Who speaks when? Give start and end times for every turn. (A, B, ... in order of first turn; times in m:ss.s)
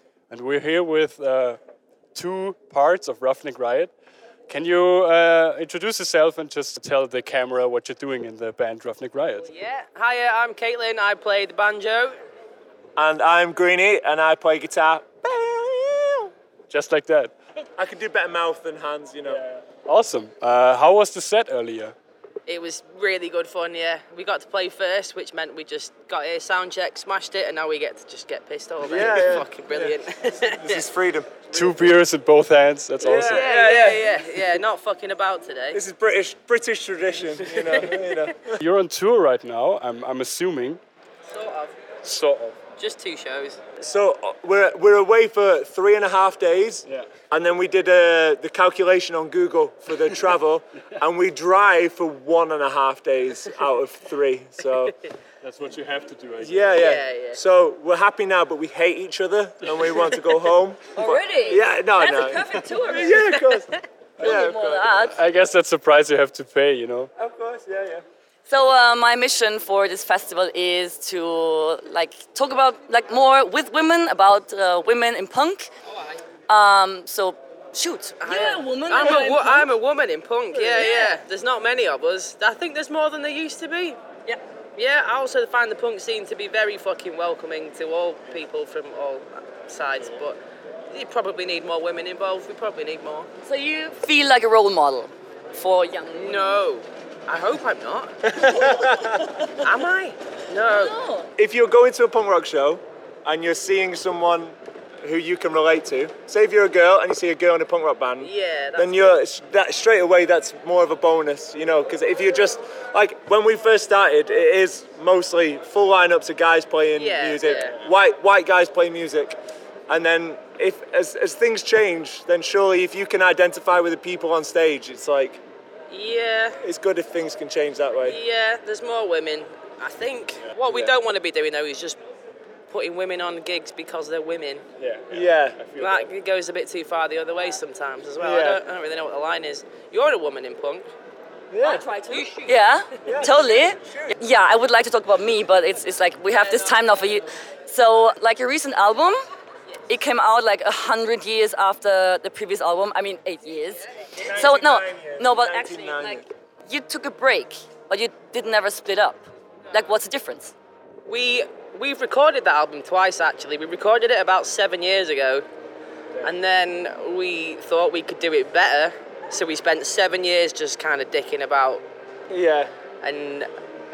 0:00.3-0:01.6 A
0:02.1-0:03.9 A
0:04.5-0:09.5 A
0:09.5-0:12.2 B
0:13.0-0:16.3 C
0:16.7-0:17.3 A
0:17.8-0:19.4 C
0:19.3-0:21.9 A
0:22.4-0:30.8 B
0:28.8-0:30.0 C
0:30.6-0:31.7 C
0:31.5-0:33.5 A
0:33.0-0:34.2 C
0:33.3-0:35.8 B
0:35.7-0:38.6 C
0:37.4-0:38.2 B
0:38.6-0:40.8 A
0:41.3-0:41.8 B
0:42.0-0:42.6 A
0:42.8-0:43.7 B
0:43.8-0:55.0 C
0:55.4-0:56.9 A
0:56.4-1:03.7 C
0:56.8-0:57.4 B
1:01.0-1:03.2 D
1:03.0-1:03.8 B
1:04.2-1:04.9 C
1:04.2-1:05.1 D
1:05.0-1:07.1 A
1:07.2-1:08.0 C
1:08.4-1:15.7 D
1:16.5-1:19.7 D
1:18.2-1:24.0 B
1:20.7-1:21.1 D
1:24.8-1:30.4 B
1:30.9-1:33.3 B
1:33.4-1:36.5 D
1:36.2-1:38.2 B
1:38.3-1:39.2 C
1:38.5-1:39.5 D
1:39.6-1:41.0 B
1:40.7-1:41.3 D
1:41.4-2:05.4 C
1:48.2-1:49.1 B
1:56.9-1:57.8 B
2:05.9-2:06.6 B
2:06.6-2:08.2 C
2:08.0-2:12.0 B
2:10.4-2:10.9 A
2:12.7-2:14.6 B
2:14.8-2:16.1 A
2:15.1-2:15.6 C
2:15.8-2:20.9 B
2:18.2-2:18.6 C
2:21.5-2:21.8 C
2:21.6-2:29.2 D
2:22.0-2:23.2 B
2:23.0-2:24.1 C
2:29.9-2:40.5 D
2:34.1-2:36.2 C
2:41.0-2:45.4 B
2:46.2-2:51.8 B
2:52.3-2:52.7 C
2:53.0-2:53.5 B